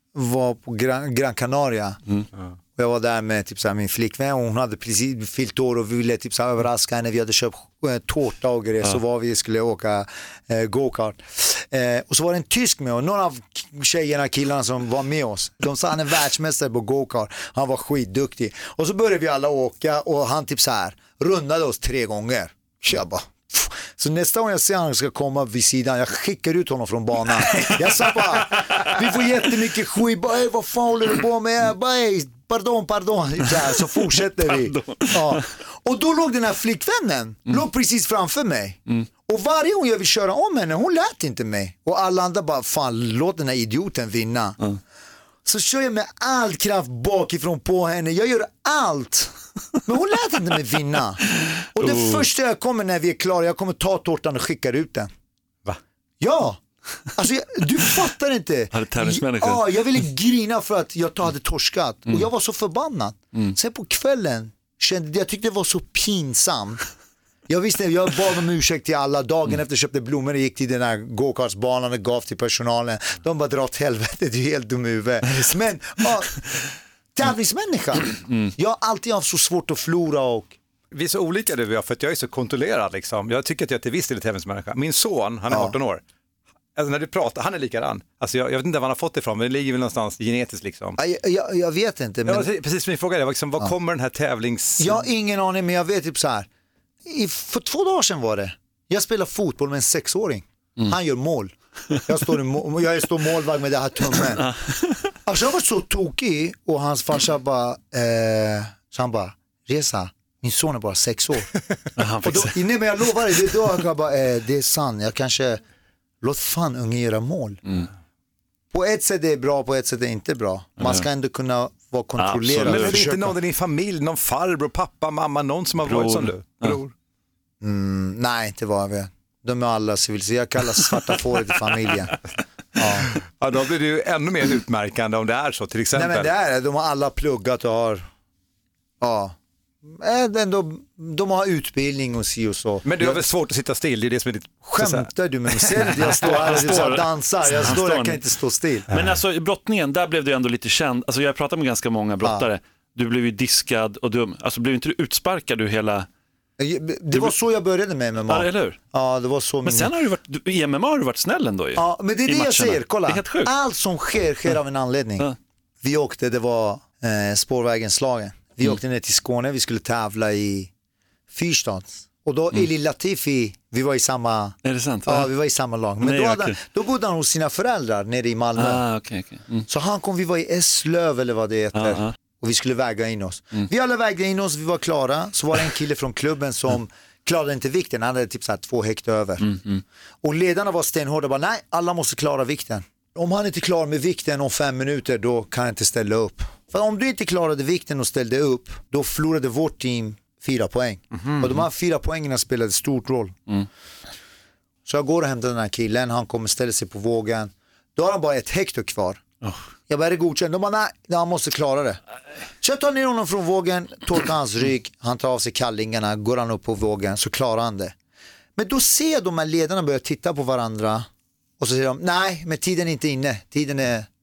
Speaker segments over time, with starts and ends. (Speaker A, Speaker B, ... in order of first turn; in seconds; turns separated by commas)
Speaker A: 0.1-2.0, Speaker A: 2.8-44.6, Speaker B: 27.5-28.9, Speaker B: 34.5-35.4, Speaker A: 45.5-55.1, Speaker B: 51.8-52.2, Speaker A: 56.2-56.6, Speaker A: 57.1-66.8, Speaker B: 58.7-60.0, Speaker A: 67.5-76.3, Speaker A: 77.2-80.5, Speaker C: 80.9-86.0, Speaker A: 85.5-85.8, Speaker C: 86.8-91.0, Speaker A: 91.0-92.5, Speaker C: 92.3-95.1, Speaker A: 94.8-96.5, Speaker A: 97.0-101.5, Speaker A: 102.0-104.4, Speaker B: 104.4-105.0, Speaker A: 105.3-111.5, Speaker B: 112.0-112.6, Speaker A: 112.2-115.6, Speaker A: 116.2-117.6, Speaker A: 118.7-123.3, Speaker B: 120.8-121.0, Speaker B: 122.2-123.0, Speaker C: 122.6-126.9, Speaker B: 125.8-126.8, Speaker A: 127.6-132.2, Speaker A: 132.8-133.1, Speaker C: 133.3-136.3, Speaker A: 135.9-138.1, Speaker A: 139.0-139.3, Speaker A: 139.9-143.2, Speaker C: 142.8-146.5, Speaker A: 144.6-148.9, Speaker B: 146.0-148.2, Speaker B: 148.9-156.1, Speaker A: 156.6-159.9, Speaker B: 158.3-158.8, Speaker B: 159.7-163.5, Speaker A: 161.8-165.3, Speaker A: 165.8-170.7, Speaker A: 171.3-178.8, Speaker B: 174.6-175.3, Speaker B: 176.0-176.6, Speaker B: 178.6-179.7, Speaker A: 179.7-189.4, Speaker B: 181.8-182.1, Speaker B: 189.4-189.8, Speaker A: 190.2-203.3, Speaker A: 204.9-209.2, Speaker A: 209.9-212.0, Speaker A: 212.6-217.9, Speaker A: 218.6-221.1, Speaker A: 221.6-224.1